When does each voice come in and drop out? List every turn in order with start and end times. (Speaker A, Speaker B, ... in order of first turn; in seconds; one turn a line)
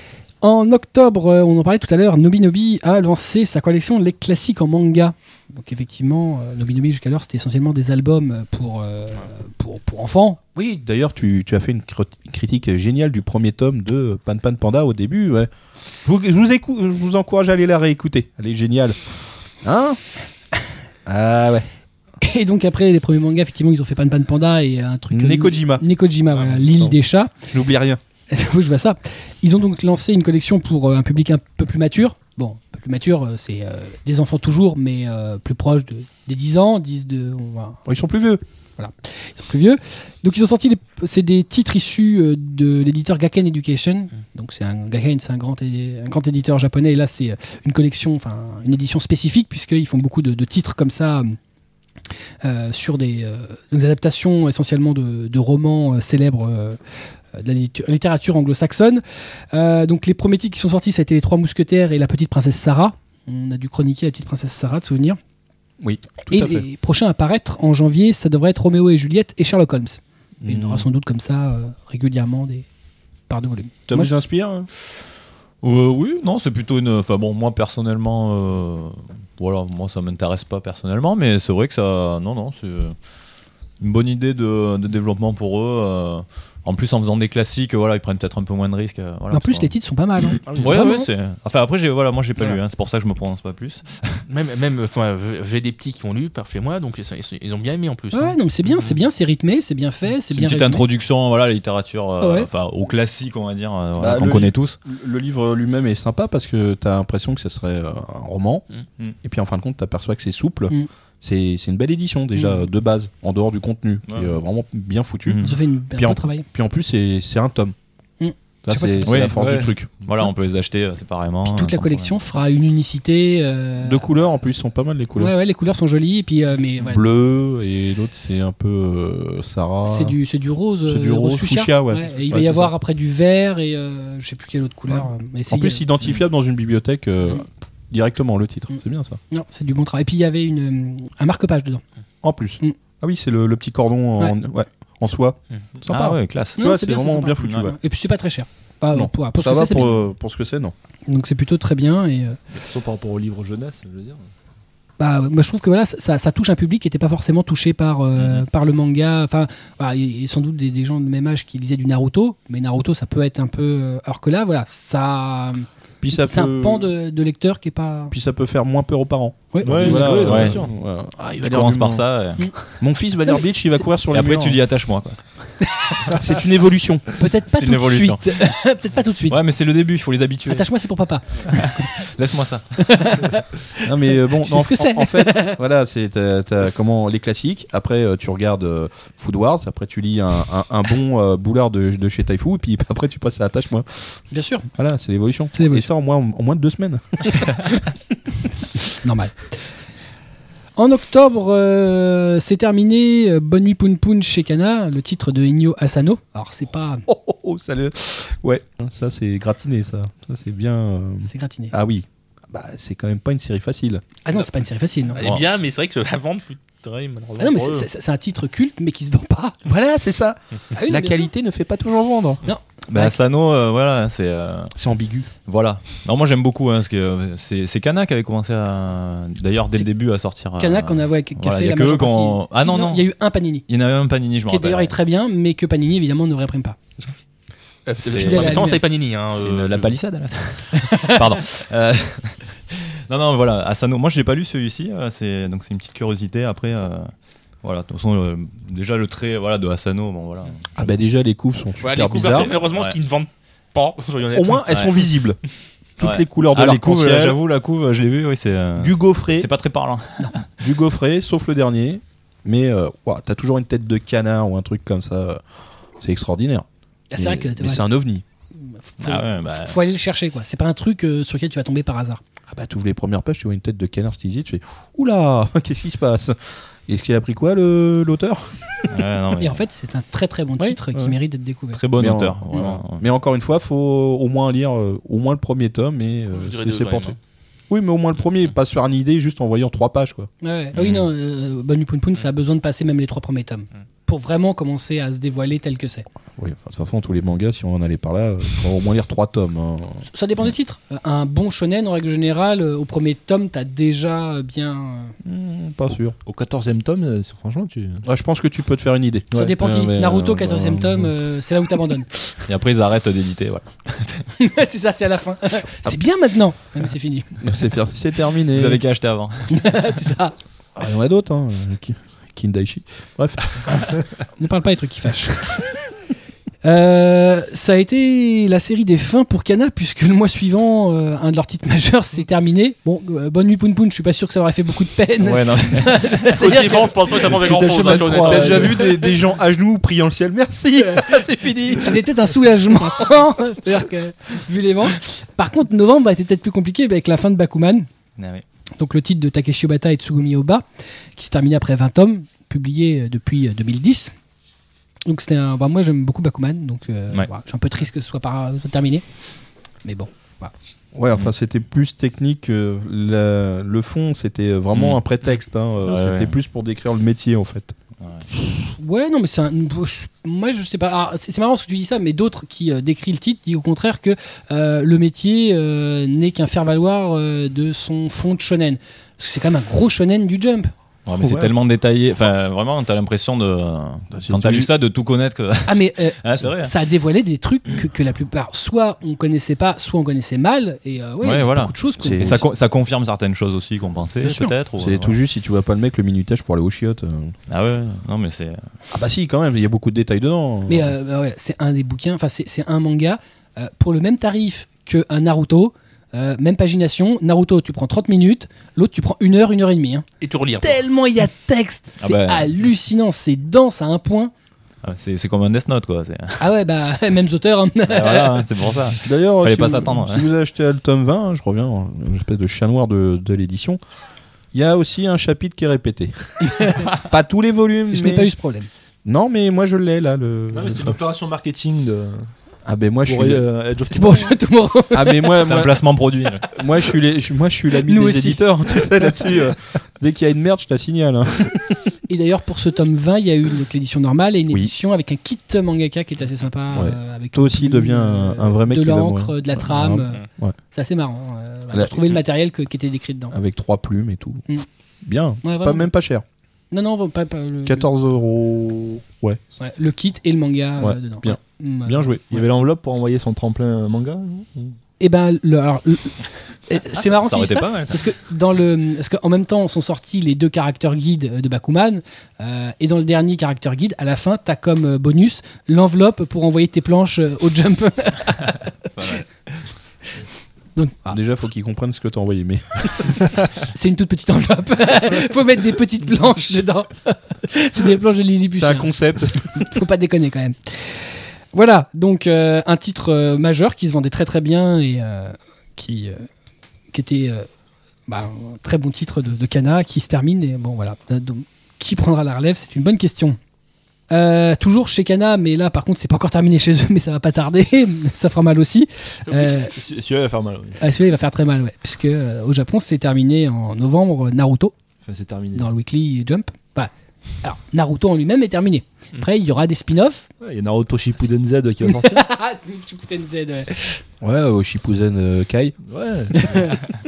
Speaker A: 0.4-10.4
Speaker B: 10.6-15.5
Speaker B: 16.0-20.0
Speaker B: 21.1-21.7
Speaker A: 22.2-27.3
Speaker B: 25.1-25.8
Speaker B: 27.4-28.0
Speaker A: 28.3-37.8
Speaker B: 37.9-38.4
Speaker A: 38.8-51.4
Speaker A: 52.4-56.8
Speaker A: 57.3-65.2
Speaker B: 65.8-66.6
Speaker A: 66.3-72.7
Speaker B: 70.4-70.8
Speaker A: 73.3-74.1
Speaker B: 73.9-74.7
Speaker C: 75.6-82.9
Speaker C: 83.8-89.7
Speaker A: 89.3-91.1
Speaker C: 90.5-94.2
Speaker D: 94.3-98.9
Speaker A: 98.1-100.8
Speaker C: 100.3-104.8
Speaker A: 102.2-102.5
Speaker B: 104.0-108.6
Speaker B: 109.2-117.7
Speaker A: 112.4-112.6
Speaker C: 114.1-114.4
Speaker C: 115.3-115.6
Speaker A: 115.4-116.5
Speaker A: 118.2-119.3
Speaker B: 118.6-119.9
Speaker C: 119.0-122.1
Speaker E: 119.4-119.7
Speaker A: 121.5-124.0
Speaker B: 123.8-125.3
Speaker A: 125.2-127.0
Speaker B: 126.9-130.2
Speaker A: 129.8-135.8
Speaker B: 130.8-132.7
Speaker B: 134.9-139.2
Speaker A: 139.3-141.8
Speaker B: 142.2-147.8
Speaker C: 145.9-146.6
Speaker A: 146.6-150.0
Speaker B: 148.9-150.7
Speaker A: 151.1-152.4
Speaker E: 152.5-154.3
Speaker A: 155.0-168.1
Speaker C: 158.2-158.4
Speaker B: 166.0-166.9
Speaker B: 168.1-172.1
Speaker A: 169.5-170.5
Speaker E: 169.6-170.7
Speaker C: 170.2-170.6
Speaker C: 171.3-172.8
Speaker B: 172.7-174.6
Speaker C: 174.1-175.8
Speaker B: 176.1-177.1
Speaker A: 177.2-179.4
Speaker C: 177.5-178.5
Speaker C: 179.2-180.7
Speaker A: 180.4-182.0
Speaker C: 181.4-183.1
Speaker A: 182.8-185.6
Speaker B: 183.8-194.2
Speaker A: 194.3-194.7
Speaker B: 194.7-197.7
Speaker A: 195.5-195.8
Speaker A: 199.0-199.6
Speaker A: 200.8-207.0
Speaker B: 207.1-214.0
Speaker A: 211.2-211.7
Speaker A: 214.2-215.2
Speaker D: 215.2-217.9
Speaker C: 215.2-215.4
Speaker A: 217.4-219.6
Speaker B: 219.6-222.4
Speaker A: 220.7-221.3
Speaker A: 222.4-223.1
Speaker C: 222.9-224.7
Speaker B: 224.8-225.3
Speaker C: 225.4-233.1
Speaker A: 230.6-233.7
Speaker C: 233.7-234.9
Speaker A: 234.5-236.8
Speaker D: 237.8-239.9
Speaker C: 238.1-238.8
Speaker A: 238.1-238.8
Speaker C: 239.3-247.1
Speaker A: 240.7-241.2
Speaker C: 247.6-250.7
Speaker B: 250.8-252.5
Speaker D: 251.8-254.9
Speaker C: 252.1-253.0
Speaker B: 254.3-255.4
Speaker B: 256.0-257.4
Speaker C: 256.0-260.5
Speaker B: 258.8-259.5
Speaker B: 260.6-265.4
Speaker B: 266.0-268.2
Speaker A: 267.1-267.8
Speaker A: 268.6-272.2
Speaker C: 269.0-269.8
Speaker B: 272.5-279.0
Speaker C: 278.9-279.6
Speaker A: 279.4-281.8
Speaker B: 280.6-281.1
Speaker C: 281.7-283.0
Speaker B: 281.9-287.2
Speaker D: 286.3-287.2
Speaker B: 287.7-290.3
Speaker A: 290.4-296.1
Speaker C: 290.7-291.1
Speaker B: 296.4-300.1
Speaker A: 300.1-305.2
Speaker B: 305.2-306.1
Speaker E: 306.2-308.0
Speaker B: 308.0-311.1
Speaker A: 309.3-312.1
Speaker C: 312.4-314.3
Speaker A: 314.4-317.4
Speaker B: 317.4-318.8
Speaker C: 318.5-319.6
Speaker A: 319.5-320.3
Speaker B: 320.8-324.0
Speaker A: 324.4-325.7
Speaker A: 326.6-337.3
Speaker C: 335.2-336.2
Speaker D: 336.3-338.9
Speaker E: 337.3-338.9
Speaker B: 337.7-342.1
Speaker A: 340.8-347.9
Speaker C: 348.2-348.4
Speaker A: 348.8-350.6
Speaker A: 351.1-354.1
Speaker A: 355.1-359.1
Speaker A: 359.8-360.5
Speaker B: 360.9-367.8
Speaker C: 364.7-365.0
Speaker C: 365.8-366.4
Speaker A: 368.8-380.7
Speaker C: 381.1-386.7
Speaker B: 381.2-381.5
Speaker B: 384.1-384.7
Speaker A: 385.6-392.4
Speaker C: 391.2-395.2
Speaker B: 392.0-392.4
Speaker A: 394.2-394.5
Speaker B: 394.8-397.3
Speaker C: 397.5-398.6
Speaker B: 398.9-400.9
Speaker A: 400.7-410.1
Speaker D: 410.2-410.8
Speaker A: 410.6-414.3
Speaker C: 412.0-412.6
Speaker C: 414.8-416.5
Speaker A: 416.4-418.5
Speaker C: 417.9-420.3
Speaker B: 419.0-423.8
Speaker B: 424.5-428.3
Speaker A: 426.4-426.9
Speaker A: 427.9-428.7
Speaker B: 429.0-431.0
Speaker E: 430.5-432.3
Speaker B: 432.6-433.4
Speaker E: 433.1-434.4
Speaker A: 433.9-435.4
Speaker B: 434.9-435.8
Speaker C: 435.4-436.6
Speaker B: 436.5-441.8
Speaker A: 437.8-439.1
Speaker A: 442.1-453.3
Speaker B: 446.7-450.6
Speaker B: 451.7-452.2
Speaker B: 453.3-456.2
Speaker A: 455.4-455.9
Speaker A: 456.7-457.9
Speaker B: 457.6-459.4
Speaker A: 459.6-462.1
Speaker B: 460.8-462.4
Speaker E: 462.3-464.8
Speaker A: 465.0-479.2
Speaker C: 466.8-468.1
Speaker C: 479.0-479.3
Speaker A: 480.8-481.2
Speaker B: 481.1-483.3
Speaker A: 483.7-488.9
Speaker B: 488.5-489.6
Speaker A: 489.5-496.3
Speaker A: 496.9-497.5
Speaker A: 498.1-503.4
Speaker A: 504.1-509.7
Speaker E: 509.3-510.8
Speaker A: 510.8-514.7
Speaker E: 515.0-515.7
Speaker A: 515.5-516.9
Speaker A: 517.4-520.3
Speaker E: 520.4-522.2
Speaker A: 521.8-524.0
Speaker B: 524.2-525.8
Speaker E: 525.9-526.6
Speaker A: 526.3-526.9